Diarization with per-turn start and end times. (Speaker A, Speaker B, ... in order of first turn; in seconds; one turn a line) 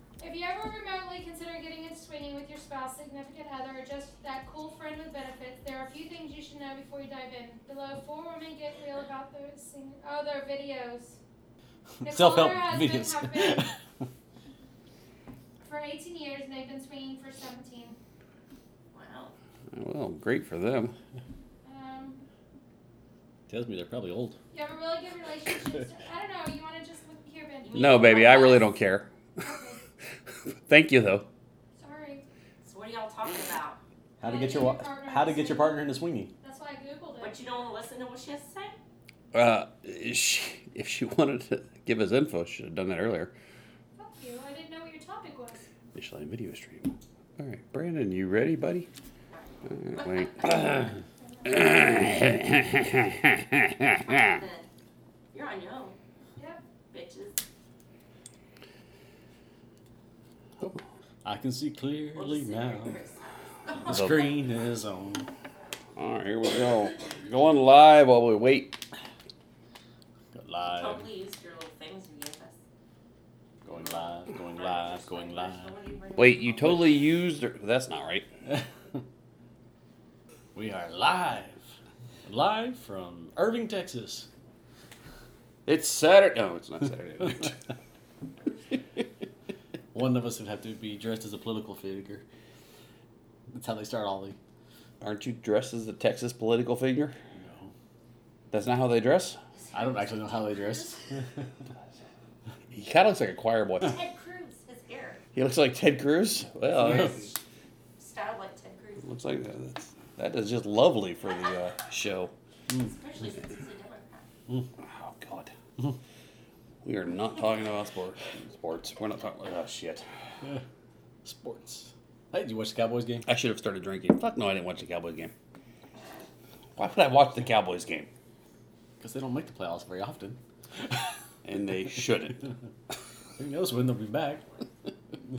Speaker A: 0.2-11.2
Speaker B: 12.0-13.8
Speaker A: 12.0-13.7
Speaker A: 15.6-17.9
Speaker C: 18.9-19.3
Speaker D: 19.7-20.9
Speaker A: 21.6-22.2
Speaker B: 23.5-24.4
Speaker A: 24.5-28.6
Speaker C: 27.6-28.6
Speaker D: 27.7-29.1
Speaker A: 29.4-29.8
Speaker D: 30.6-31.2
Speaker A: 31.8-32.2
Speaker C: 32.6-33.8
Speaker B: 34.2-36.3
Speaker A: 34.2-37.4
Speaker C: 37.2-38.8
Speaker D: 39.3-43.3
Speaker A: 44.0-45.6
Speaker D: 45.9-48.9
Speaker C: 49.3-50.8
Speaker D: 49.7-50.9
Speaker A: 51.2-51.7
Speaker D: 51.4-54.4
Speaker C: 53.9-54.6
Speaker C: 55.3-56.0
Speaker A: 56.4-56.6
Speaker C: 56.9-57.4
Speaker B: 60.6-63.0
Speaker C: 62.1-64.4
Speaker B: 63.8-65.2
Speaker D: 63.9-64.3
Speaker D: 66.0-68.8
Speaker B: 70.3-71.0
Speaker C: 70.7-72.6
Speaker B: 73.6-75.7
Speaker C: 73.8-77.0
Speaker D: 76.2-78.2
Speaker B: 78.5-79.0
Speaker B: 80.5-81.7
Speaker B: 82.2-84.3
Speaker D: 85.7-87.6
Speaker B: 89.9-92.2
Speaker B: 93.5-94.4
Speaker D: 95.0-97.1
Speaker B: 97.3-97.7
Speaker D: 98.5-99.4
Speaker C: 99.6-101.0
Speaker B: 99.7-101.3
Speaker D: 102.7-103.9
Speaker C: 103.8-105.2
Speaker D: 105.3-107.3
Speaker C: 108.0-109.0
Speaker D: 109.0-112.3
Speaker C: 112.8-114.3
Speaker D: 114.8-115.5
Speaker D: 116.8-120.0
Speaker B: 121.2-123.3
Speaker D: 123.2-125.3
Speaker D: 126.8-128.1
Speaker B: 129.0-130.4
Speaker D: 131.4-132.5
Speaker B: 133.4-134.4